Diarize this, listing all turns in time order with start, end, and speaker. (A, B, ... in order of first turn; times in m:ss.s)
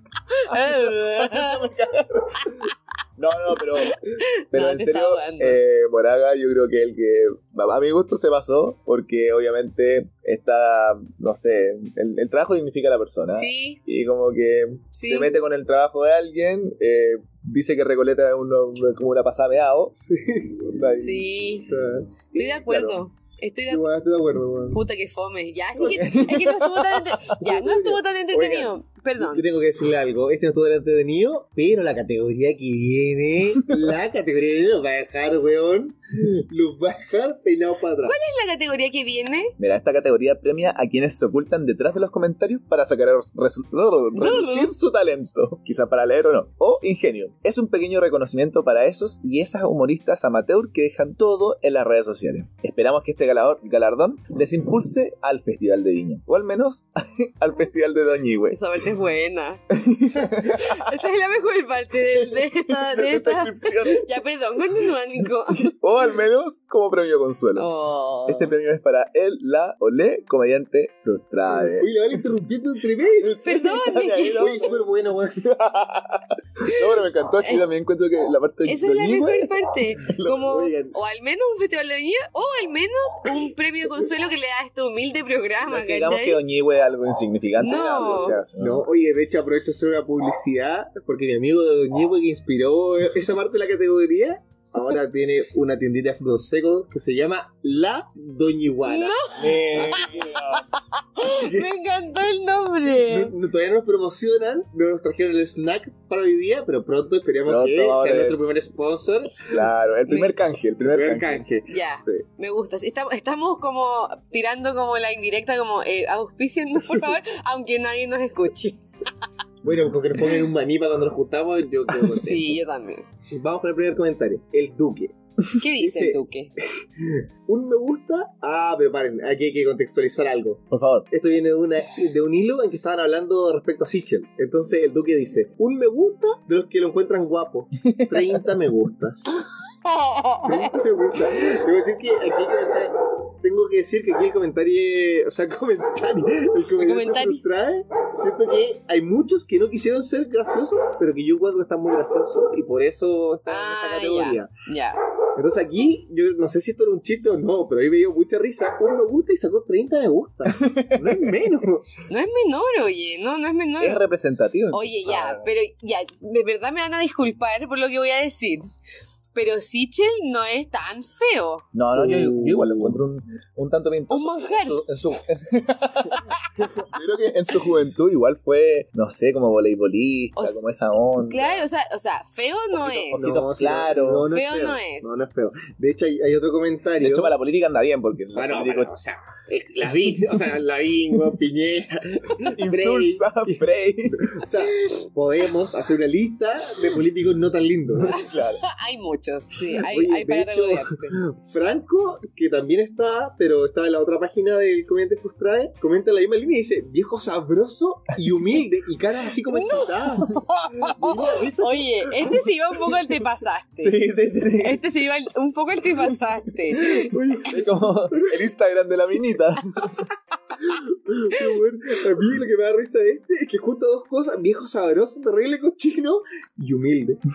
0:00.3-0:01.6 A
0:00.5-0:04.0 B
0:03.8-0:05.6 A
0:04.5-0:20.0 B
0:13.3-0:13.8 A
0:14.9-0:15.4 A
0:20.0-0:21.0 C
0:20.7-0:21.3 B
0:20.9-0:21.7 A
0:21.7-0:22.1 C
0:22.3-0:23.0 B
0:22.3-0:23.8 A
0:23.7-0:24.8 C
0:24.7-0:29.5 A
0:25.8-0:27.4 B
0:27.4-0:38.2 C
0:38.0-0:39.6 A
0:39.6-0:58.6 B
0:44.2-0:44.7 A
0:58.5-0:59.6 A
0:59.7-1:01.0 B
1:00.4-1:05.7 A
1:02.2-1:04.1 B
1:05.5-1:07.7 B
1:07.6-1:08.6 A
1:08.3-1:12.2 B
1:11.5-1:13.3 C
1:13.2-1:20.6 B
1:13.4-1:14.7 A
1:14.4-1:15.5 C
1:17.4-1:17.7 A
1:18.6-1:26.4 A
1:20.5-1:20.9 C
1:25.7-1:28.8 B
1:27.6-1:28.4 A
1:28.6-1:40.3 C
1:38.8-1:43.3 A
1:39.4-1:40.7 B
1:41.4-1:41.7 C
1:43.0-1:49.7 C
1:47.5-1:48.4 B
1:49.4-1:51.4 B
1:50.1-1:50.3 A
1:50.8-1:52.2 C
1:51.7-1:59.1 A
1:59.6-2:02.6 C
2:02.1-2:03.1 A
2:03.3-2:05.2 C
2:05.6-2:06.5 A
2:05.8-2:06.2 C
2:06.8-2:19.2 C
2:10.7-2:11.1 B
2:17.8-2:18.4 B
2:19.8-2:20.8 A
2:20.4-2:34.5 C
2:26.8-2:27.4 A
2:33.5-2:35.0 A
2:35.4-2:41.9 C
2:40.5-2:41.4 B
2:42.1-2:44.0 A
2:43.8-2:45.5 B
2:44.7-2:48.7 A
2:49.3-2:51.6 A
2:51.7-3:01.7 B
2:51.9-2:53.0 C
2:54.1-2:54.8 A
2:56.1-2:56.8 A
3:00.4-3:00.6 A
3:01.2-3:03.4 A
3:02.7-3:04.3 B
3:03.2-3:07.3 C
3:04.3-3:05.2 A
3:07.0-3:08.9 B
3:08.4-3:18.3 C
3:12.4-3:14.3 B
3:18.0-3:18.6 B
3:18.1-3:21.2 A
3:19.7-3:32.4 C
3:29.5-3:34.0 A
3:33.8-3:34.8 B
3:34.5-3:37.6 A
3:37.0-3:38.4 C
3:37.5-3:40.1 B
3:40.6-3:47.2 C